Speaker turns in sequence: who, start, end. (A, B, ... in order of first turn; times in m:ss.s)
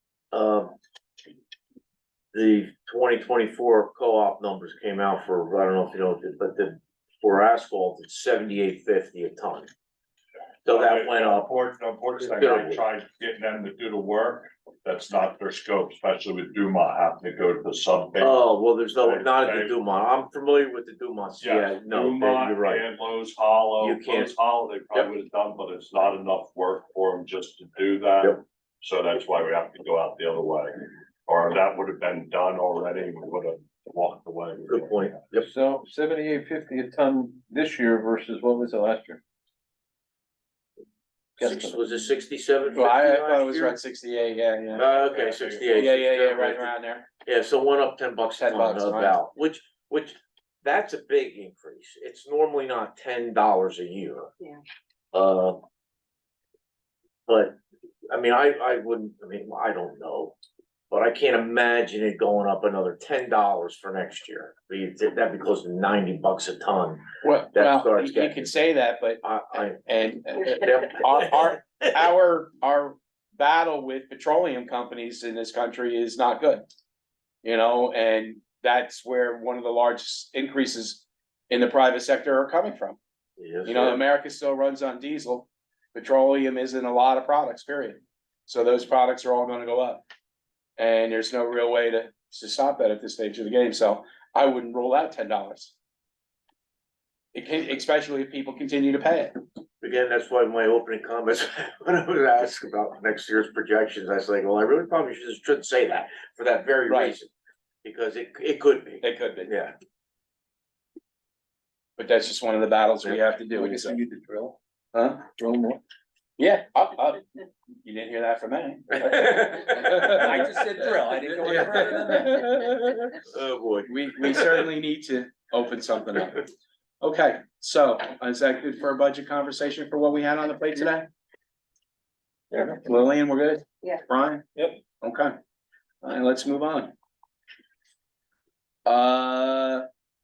0:00.3-0:00.7 A
0:02.3-0:09.7 A
0:10.7-0:11.5 A
0:10.7-0:18.4 B
0:12.2-0:12.8 A
0:18.2-0:22.9 A
0:19.0-0:19.8 B
0:21.4-0:35.2 B
0:23.8-0:24.4 A
0:34.7-0:35.5 A
0:35.3-0:39.2 C
0:41.4-0:43.8 A
0:41.4-0:41.8 C
0:42.8-0:44.9 D
0:44.7-0:46.7 A
0:45.1-0:45.8 B
0:45.7-0:47.1 D
0:47.2-0:54.3 A
0:48.4-0:49.2 D
0:55.1-0:55.6 A
0:57.3-0:57.6 A
0:58.1-1:00.4 A
1:00.9-1:08.5 A
1:07.2-1:16.6 D
1:09.2-1:09.8 A
1:10.4-1:11.6 A
1:17.4-1:23.0 D
1:23.4-1:24.0 A
1:23.6-1:30.0 D
1:30.8-1:35.7 D
1:37.3-1:39.3 D
1:39.8-1:47.3 A
1:46.9-1:47.2 D
1:47.8-1:49.7 A
1:49.0-1:49.5 D
1:52.0-1:54.0 D
1:53.5-1:54.6 C
1:54.9-1:55.3 D
1:55.4-1:55.8 C
1:56.4-1:57.2 D
1:57.8-2:03.1 D
2:00.0-2:02.5 C
2:03.3-2:04.5 A
2:03.9-2:06.5 D
2:07.0-2:11.1 D
2:12.5-2:12.8 C
2:12.8-2:15.3 D
2:16.0-2:16.9 D
2:18.8-2:19.9 D